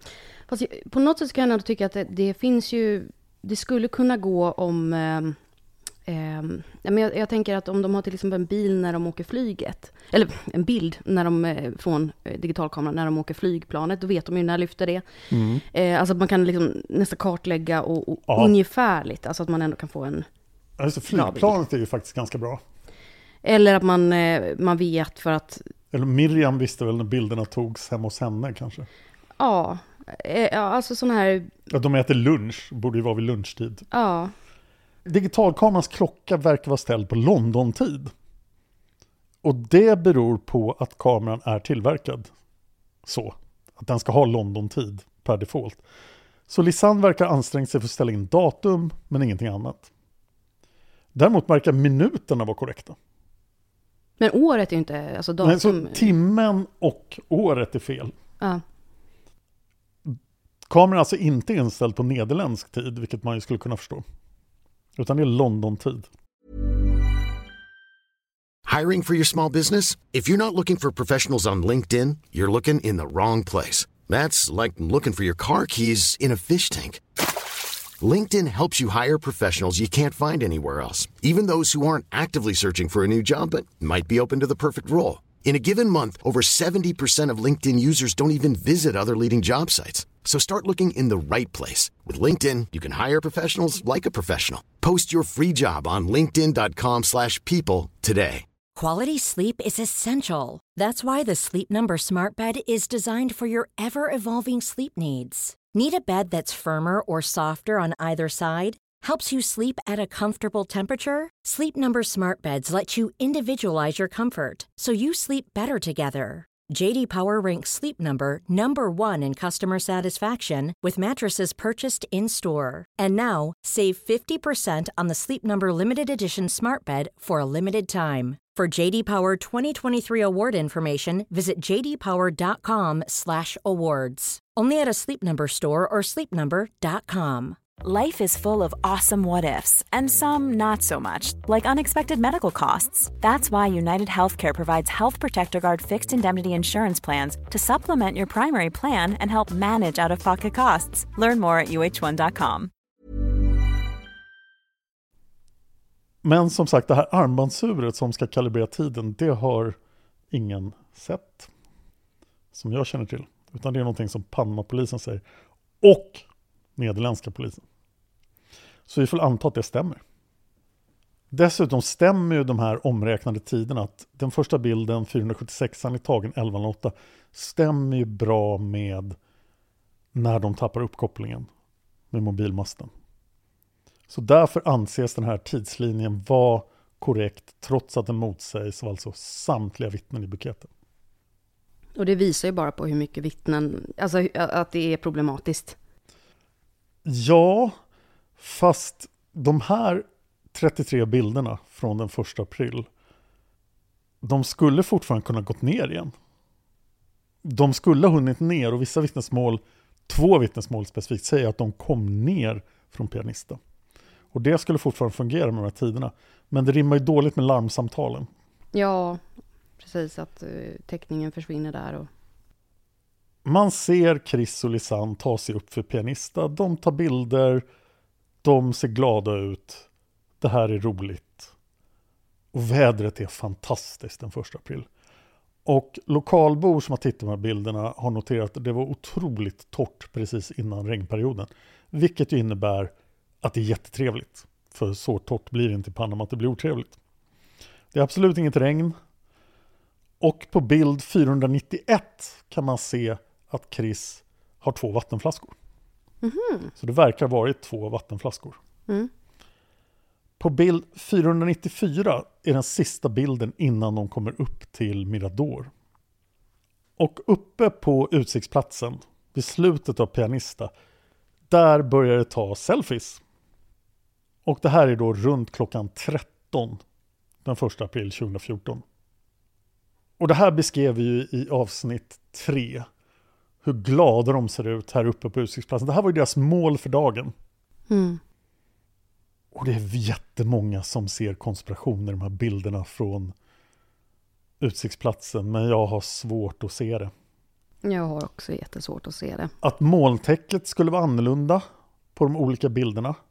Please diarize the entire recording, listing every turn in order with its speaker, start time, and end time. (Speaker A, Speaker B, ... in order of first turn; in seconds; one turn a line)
Speaker A: 0.5-5.4
Speaker A: 6.1-15.1
Speaker B: 15.3-15.6
Speaker A: 15.7-20.3
Speaker B: 18.3-18.6
Speaker B: 20.8-22.6
Speaker A: 21.1-21.6
Speaker A: 23.4-25.6
Speaker B: 25.9-28.9
Speaker A: 29.4-31.5
Speaker B: 31.7-33.9
Speaker A: 33.9-34.3
Speaker B: 35.0-38.1
Speaker B: 39.4-42.3
Speaker B: 43.0-45.8
Speaker B: 46.5-49.9
Speaker B: 51.1-53.0
Speaker A: 54.2-56.1
Speaker B: 55.4-58.1
Speaker B: 60.1-64.0
Speaker B: 65.0-66.1
Speaker C: 68.7-77.0
Speaker C: 78.0-98.5
Speaker D: 98.8-137.6
Speaker E: 137.8-152.7
Speaker B: 156.2-159.8
Speaker B: 160.3-161.5
Speaker B: 162.5-165.2
Speaker B: 165.8-166.2
Speaker B: 166.8-167.6
Speaker B: 168.9-170.0
Speaker B: 171.3-179.2
Speaker B: 180.1-181.5
Speaker B: 182.1-182.9
Speaker B: 184.1-190.7
Speaker A: 192.0-195.8
Speaker B: 197.0-197.8
Speaker B: 198.4-202.9
Speaker B: 204.2-206.1
Speaker B: 207.4-213.6
Speaker B: 214.3-218.3
Speaker A: 218.7-219.2
Speaker A: 219.8-222.1
Speaker B: 223.4-227.7
Speaker B: 228.4-229.9
Speaker B: 230.4-231.5
Speaker B: 232.5-234.9
Speaker B: 235.7-247.0
Speaker B: 247.9-249.0
Speaker B: 250.2-255.6
Speaker A: 256.2-256.7
Speaker B: 256.8-258.6
Speaker B: 260.4-265.7
Speaker B: 267.0-270.7
Speaker B: 271.5-273.2
Speaker B: 274.4-276.8
Speaker B: 277.4-278.8
Speaker B: 280.2-282.9
Speaker B: 283.6-287.3
Speaker A: 287.9-288.2
Speaker B: 289.5-293.3
Speaker B: 294.6-297.1
Speaker A: 297.8-299.5
Speaker B: 299.6-301.6
Speaker B: 302.1-303.2